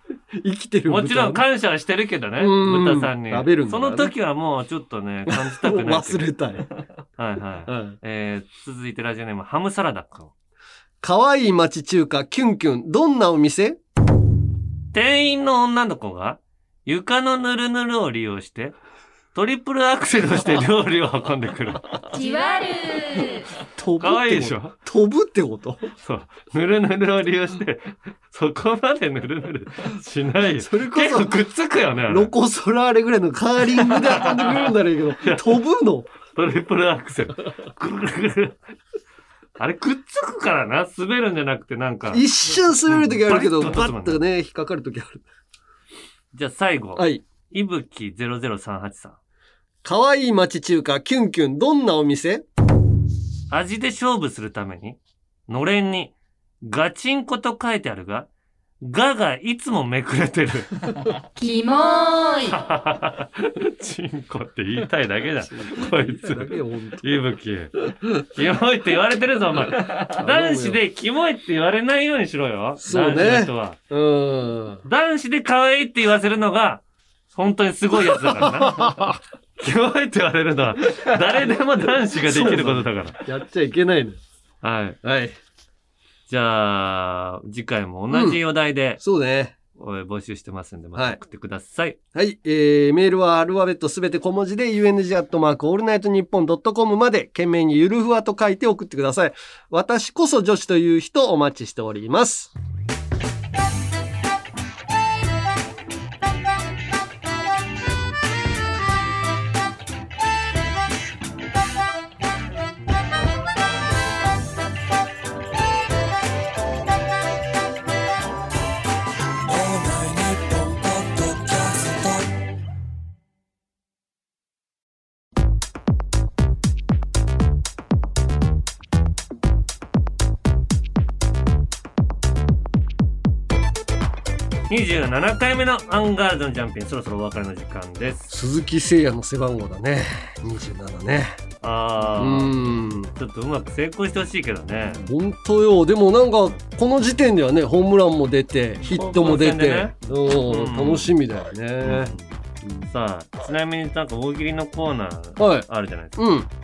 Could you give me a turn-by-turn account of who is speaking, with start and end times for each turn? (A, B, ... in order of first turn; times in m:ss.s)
0:00.4-0:01.4 A
0:00.9-0:06.2 B
0:02.4-0:04.1 A
0:05.3-0:06.8 A
0:07.2-0:10.3 B
0:07.7-0:08.0 A
0:11.0-0:13.8 A
0:14.9-0:18.8 B
0:19.3-0:21.8 B
0:22.1-0:23.5 C
0:23.7-0:25.9 A
0:24.0-0:24.7 B
0:26.0-0:32.3 B
0:30.6-0:31.4 A
0:32.1-0:36.1 A
0:34.0-0:34.7 B
0:35.2-0:35.6 B
0:36.2-0:38.6 B
0:39.6-0:44.2 B
0:42.1-0:45.2 A
0:46.3-0:49.2 B
0:47.0-0:47.2 A
0:49.8-0:52.4 A
0:53.5-0:58.3 B
0:58.8-1:00.7 B
1:01.4-1:02.6 C
1:02.5-1:13.8 B
1:05.5-1:07.0 A
1:10.1-1:10.8 A
1:12.8-1:14.8 A
1:14.8-1:16.8 B
1:17.3-1:23.2 B
1:18.7-1:19.1 A
1:22.1-1:24.2 A
1:24.6-1:25.0 B
1:25.0-1:25.3 A
1:26.3-1:29.0 B
1:28.1-1:28.4 A
1:29.0-1:29.5 A
1:29.7-1:32.0 B
1:32.1-1:42.5 A
2:14.7-2:18.3 B
2:18.3-2:21.4 A
2:21.6-2:22.6 B
2:22.2-2:23.1 A
2:23.1-2:25.0 B
2:25.0-2:32.9 A
2:28.9-2:31.1 B
2:31.8-2:32.3 B
2:32.9-2:36.2 B
2:35.4-2:36.5 A